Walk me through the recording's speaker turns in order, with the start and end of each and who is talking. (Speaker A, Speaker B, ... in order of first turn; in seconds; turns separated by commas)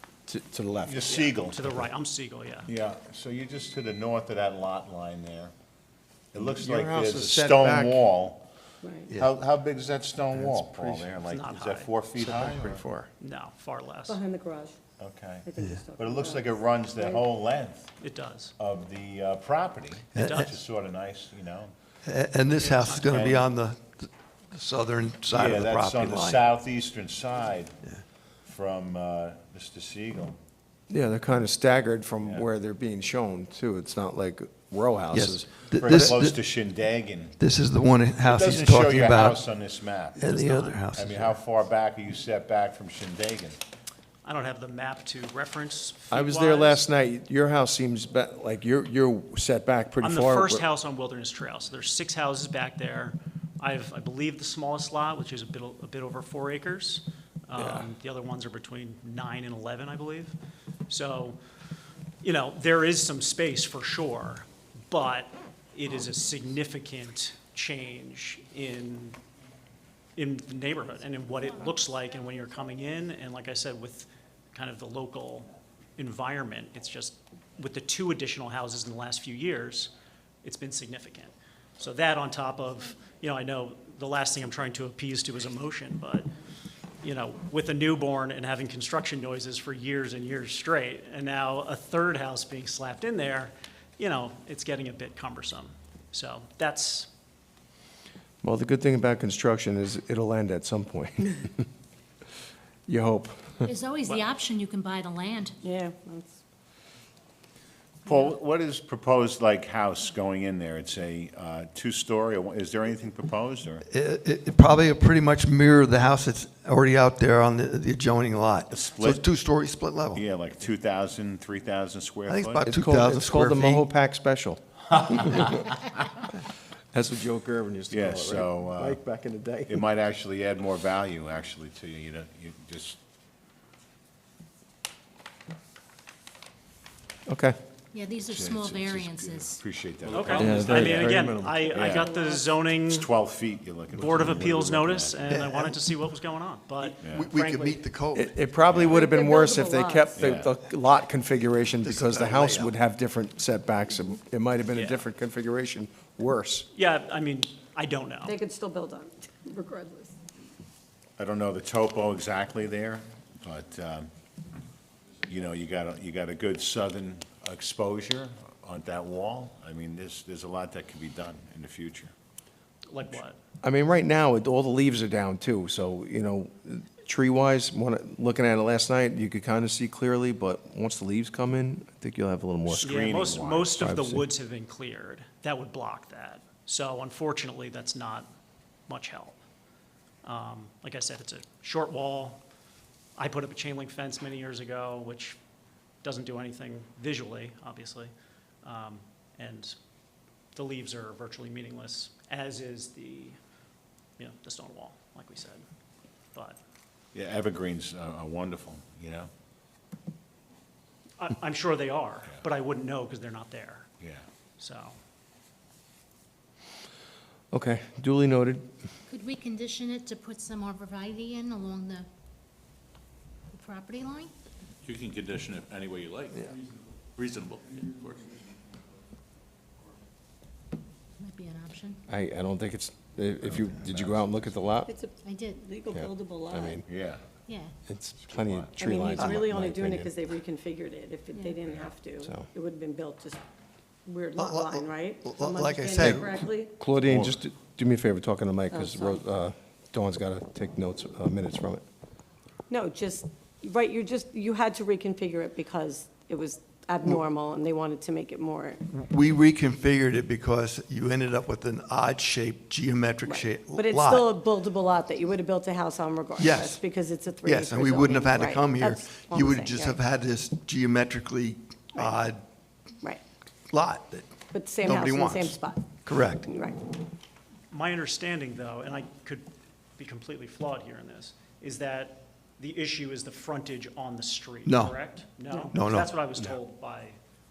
Speaker A: 0.3-1.1, Speaker B: 0.9-1.8, Speaker C: 1.1-2.7, Speaker B: 2.7-5.5, Speaker B: 6.3-8.4, Speaker A: 6.4-8.0, Speaker D: 8.8-9.1, Speaker B: 9.2-12.9, Speaker A: 10.3-11.1, Speaker C: 11.3-11.9, Speaker A: 12.2-13.1, Speaker C: 13.2-14.2, Speaker D: 14.1-14.8, Speaker B: 15.0-17.9, Speaker D: 15.4-17.3, Speaker C: 18.0-18.5, Speaker B: 18.6-21.7, Speaker E: 20.1-20.5, Speaker C: 20.1-20.5, Speaker E: 22.1-26.5, Speaker C: 22.6-23.3, Speaker B: 23.1-23.5, Speaker B: 25.3-27.8, Speaker B: 28.4-30.4, Speaker A: 30.9-35.5, Speaker E: 35.1-36.4, Speaker B: 35.8-37.4, Speaker E: 37.4-39.4, Speaker B: 38.2-40.4, Speaker E: 40.2-41.3, Speaker C: 40.3-40.8, Speaker B: 40.9-43.6, Speaker C: 44.2-46.8, Speaker A: 46.1-50.7, Speaker C: 50.0-60.4, Speaker A: 57.6-57.9, Speaker C: 60.9-61.4, Speaker C: 62.2-69.2, Speaker C: 70.2-79.9, Speaker C: 80.4-86.3, Speaker C: 87.0-97.1, Speaker A: 98.4-101.7, Speaker A: 102.9-103.7, Speaker F: 103.6-105.6, Speaker D: 105.6-106.4, Speaker B: 108.1-113.8, Speaker E: 113.9-120.2, Speaker B: 118.7-119.3, Speaker B: 120.1-122.7, Speaker E: 122.3-123.9, Speaker A: 122.7-125.7, Speaker A: 126.9-129.8, Speaker B: 127.9-129.0, Speaker B: 129.7-133.0, Speaker A: 137.3-137.6, Speaker F: 137.9-139.6, Speaker B: 138.1-141.2, Speaker C: 140.1-143.1, Speaker A: 140.3-141.6, Speaker D: 141.5-142.4, Speaker B: 141.7-142.1, Speaker B: 142.9-145.3, Speaker C: 143.9-147.8, Speaker E: 145.3-145.8, Speaker E: 146.8-148.3, Speaker B: 147.0-147.3, Speaker A: 148.1-156.7, Speaker B: 148.7-149.0, Speaker D: 148.8-150.3, Speaker B: 150.2-150.5, Speaker E: 151.8-152.7, Speaker C: 154.7-155.1, Speaker C: 156.7-158.4, Speaker D: 158.3-160.2, Speaker B: 161.2-164.1, Speaker B: 165.3-172.1, Speaker C: 172.9-173.4, Speaker A: 173.6-184.2, Speaker B: 182.7-183.7, Speaker C: 182.8-188.3, Speaker C: 188.9-189.4, Speaker C: 190.2-192.4, Speaker C: 193.2-195.4, Speaker C: 196.0-198.1, Speaker C: 198.6-199.8, Speaker C: 200.6-203.4, Speaker C: 204.2-205.6, Speaker B: 207.1-209.3, Speaker C: 211.2-213.9, Speaker B: 214.0-214.2, Speaker C: 214.6-215.0, Speaker A: 217.5-218.6, Speaker F: 219.1-222.1, Speaker F: 223.6-224.3, Speaker G: 224.8-226.6, Speaker G: 227.2-228.3, Speaker F: 231.2-232.0, Speaker A: 232.1-234.9, Speaker B: 233.5-234.5, Speaker D: 234.9-236.8, Speaker F: 235.2-235.7, Speaker A: 235.9-236.8, Speaker B: 236.8-237.2, Speaker F: 237.5-237.7, Speaker A: 237.9-240.1, Speaker B: 238.3-238.7, Speaker D: 238.8-243.4, Speaker E: 239.2-239.4, Speaker F: 241.3-241.6, Speaker D: 244.1-246.8, Speaker E: 244.4-246.3, Speaker A: 246.0-251.8, Speaker B: 246.9-247.3, Speaker D: 248.7-249.2, Speaker D: 252.7-258.9, Speaker E: 258.9-264.4, Speaker D: 263.3-270.0, Speaker E: 266.4-266.8, Speaker E: 267.4-272.4, Speaker E: 273.7-276.5, Speaker D: 274.5-276.8, Speaker C: 277.7-279.5, Speaker C: 280.0-287.2, Speaker E: 284.7-285.0, Speaker E: 285.7-286.1